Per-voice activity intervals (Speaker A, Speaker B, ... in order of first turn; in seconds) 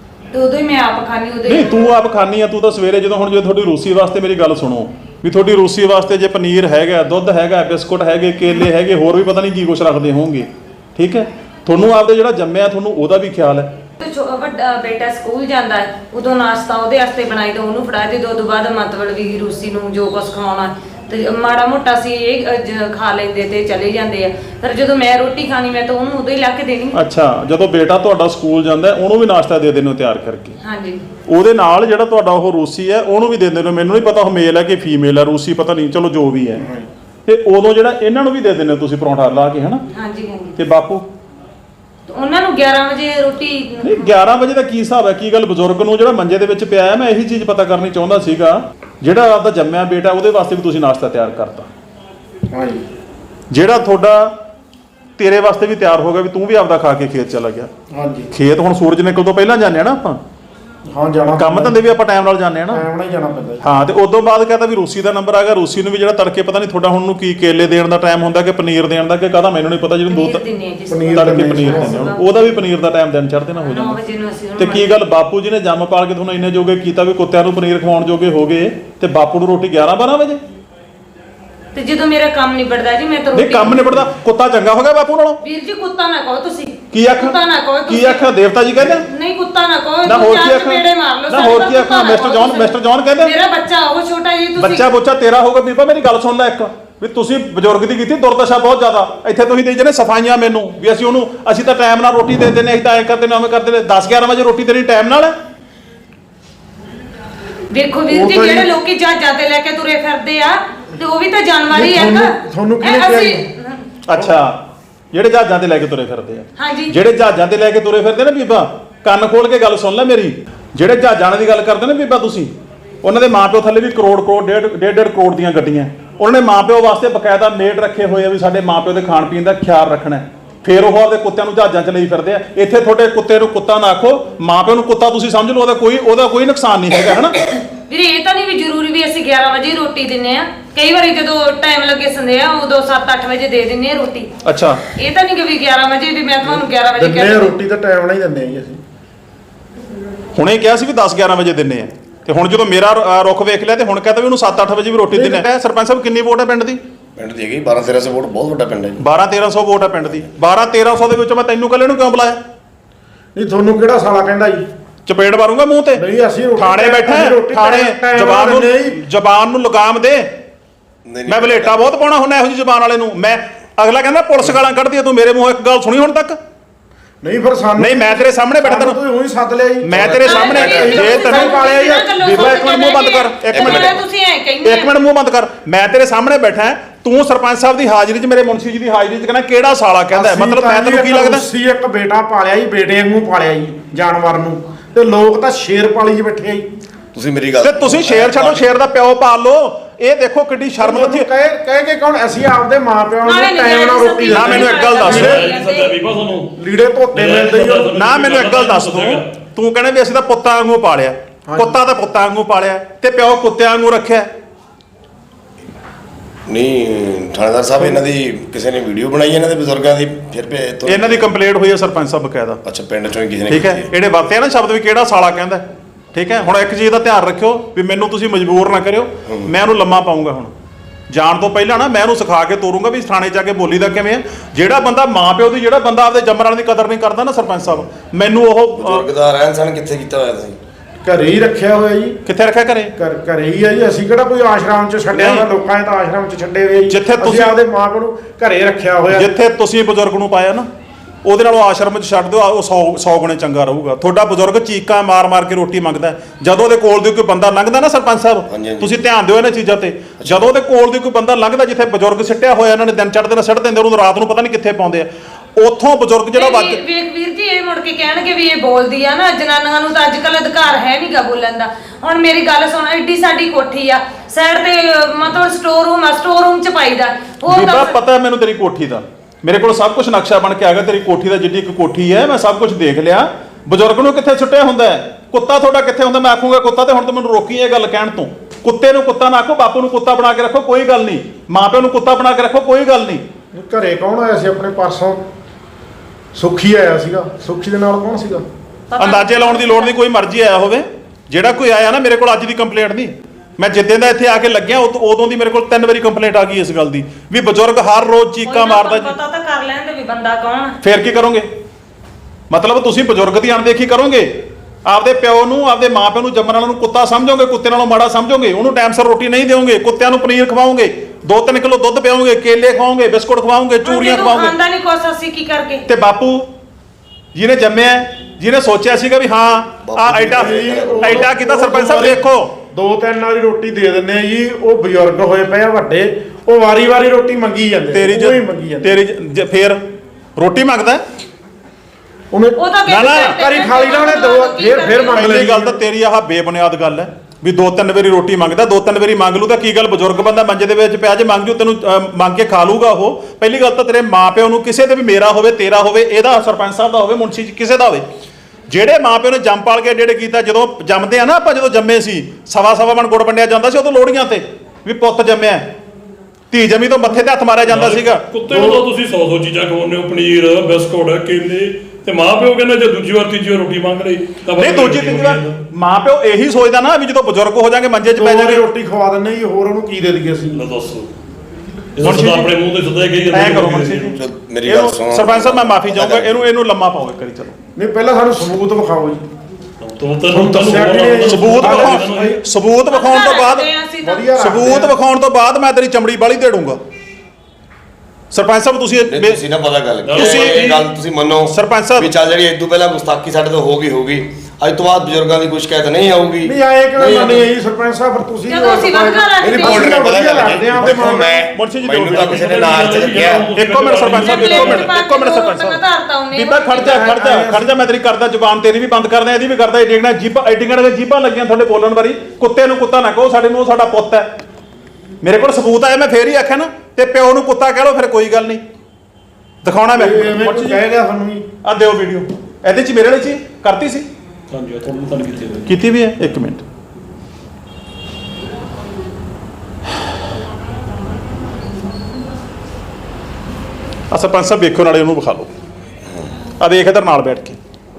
Speaker A: 0.3-1.9, 14.0-27.0, 30.6-31.0, 39.9-40.6, 42.1-44.2, 70.1-72.6, 73.6-75.0, 81.7-84.0, 85.4-88.3, 88.8-94.8, 107.7-113.8, 116.6-116.9, 137.8-144.3, 144.9-147.5, 180.2-184.9, 203.2-205.9, 266.3-278.0, 298.9-299.9, 308.4-310.8, 323.8-325.8, 342.6-345.3, 392.9-394.3, 408.5-410.0, 414.0-417.1
Speaker B: 1.5-13.7, 26.9-30.6, 31.3-36.6, 37.2-39.8, 40.6-41.0, 43.8-51.7, 53.5-54.3, 55.2-57.7, 58.3-60.2, 61.4-62.8, 63.6-70.4, 71.1-74.0, 74.6-80.4, 83.3-85.4, 86.9-89.0, 90.0-93.3, 94.6-105.3, 114.1-114.6, 115.1-137.4, 144.4-144.8, 150.3-156.8, 159.0-162.4, 165.1-166.0, 166.6-170.3, 171.2-176.4, 177.8-179.0, 179.8-183.9, 184.6-191.4, 197.6-201.3, 204.3-205.5, 207.9-214.3, 220.8-222.6, 223.5-230.5, 231.1-239.1, 242.2-242.9, 245.1-245.5, 246.9-247.5, 249.1-250.7, 251.2-266.8, 277.5-293.2, 299.0-309.1, 310.8-311.5, 312.5-314.3, 314.8-324.6, 325.9-326.5, 327.3-332.5, 337.9-339.8, 340.4-341.0, 342.9-343.4, 345.1-358.1, 358.7-365.7, 366.5-368.2, 374.6-378.6, 382.0-382.5, 383.3-387.6, 391.2-393.7, 394.4-396.8, 398.3-399.4, 400.1-400.8, 401.5-402.1, 411.5-415.8, 416.3-424.3, 425.2-428.6, 429.6-430.8, 431.6-434.1, 435.6-436.6, 444.1-445.5, 446.6-447.6
Speaker C: 36.6-36.9, 52.5-52.9, 57.9-58.3, 60.9-61.8, 62.7-63.6, 70.9-72.0, 108.1-108.7, 111.7-113.4, 146.4-148.8, 155.1-155.4, 163.3-164.6, 165.9-169.0, 177.2-182.3, 190.1-196.7, 200.8-205.4, 206.6-207.9, 211.5-211.8, 241.0-242.2, 242.9-249.3, 293.5-295.2, 296.3-298.4, 330.3-339.0, 342.3-342.6, 343.1-345.8, 368.5-368.8, 378.2-380.6, 387.8-389.2, 390.3-392.4, 394.0-394.9, 406.4-411.4, 416.8-417.7, 429.9-431.4
Speaker D: 157.2-159.0, 171.0-171.9, 179.9-181.1, 183.5-184.0, 197.1-198.7, 216.5-221.3, 222.6-223.9, 229.3-229.5, 238.8-240.6, 258.5-259.0, 260.2-260.6, 329.8-331.3, 384.1-386.3, 399.1-407.5, 409.5-413.5
Speaker E: 205.1-206.5, 207.1-209.3, 367.6-375.6, 380.5-381.2, 382.0-384.2, 389.8-392.4, 400.0-400.8, 412.2-414.9, 434.5-435.7